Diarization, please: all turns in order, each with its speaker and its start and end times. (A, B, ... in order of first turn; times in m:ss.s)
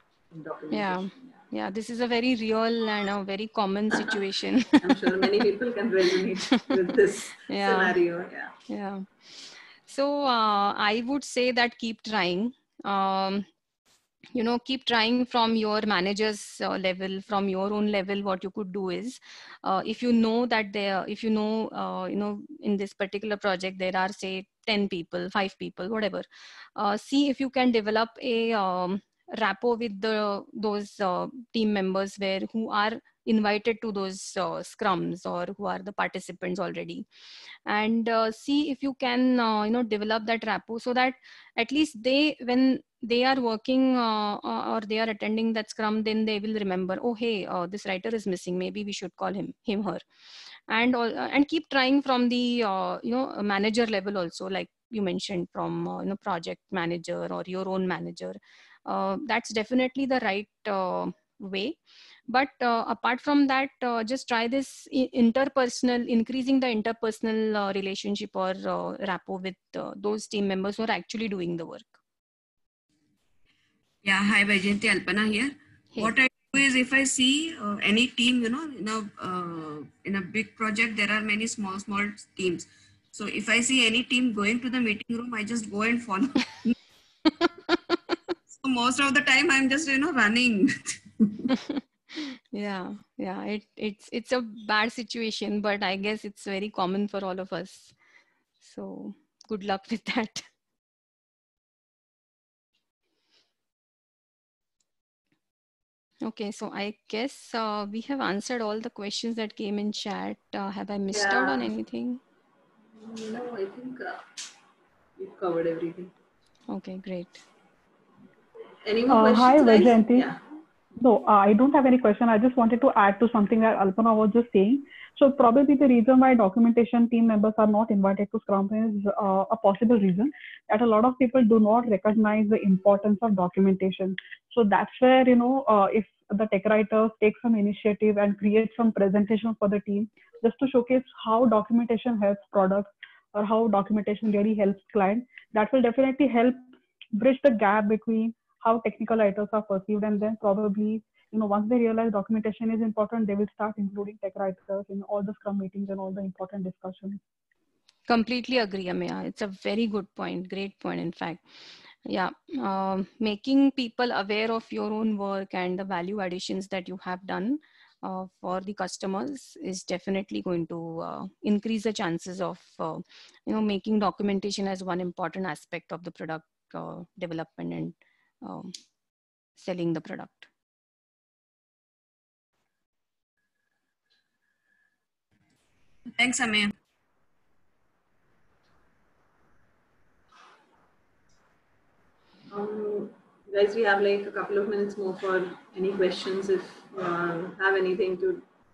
0:00.3-0:01.4 A
0:00.7-0:05.1 B
0:04.8-0:08.5 A
0:07.5-0:08.0 B
0:08.7-0:09.1 B
0:09.9-0:13.4 B
0:14.3-0:37.0 B
0:37.6-0:50.0 B
0:50.7-1:01.8 B
1:02.3-1:12.0 B
1:14.0-1:26.7 C
1:28.6-1:31.4 C
1:31.5-1:37.9 B
1:38.6-1:40.4 B
1:46.2-1:52.2 B
1:51.1-1:51.7 A
1:52.9-1:54.4 A
1:55.2-1:56.1 A
1:56.7-1:57.4 B
1:58.8-2:00.4 A
1:59.1-2:00.3 D
2:01.0-2:37.2 D
2:38.1-2:41.4 B
2:42.0-2:58.7 B
2:59.6-3:00.5 B
3:06.2-3:06.7 C
3:12.5-3:18.4 A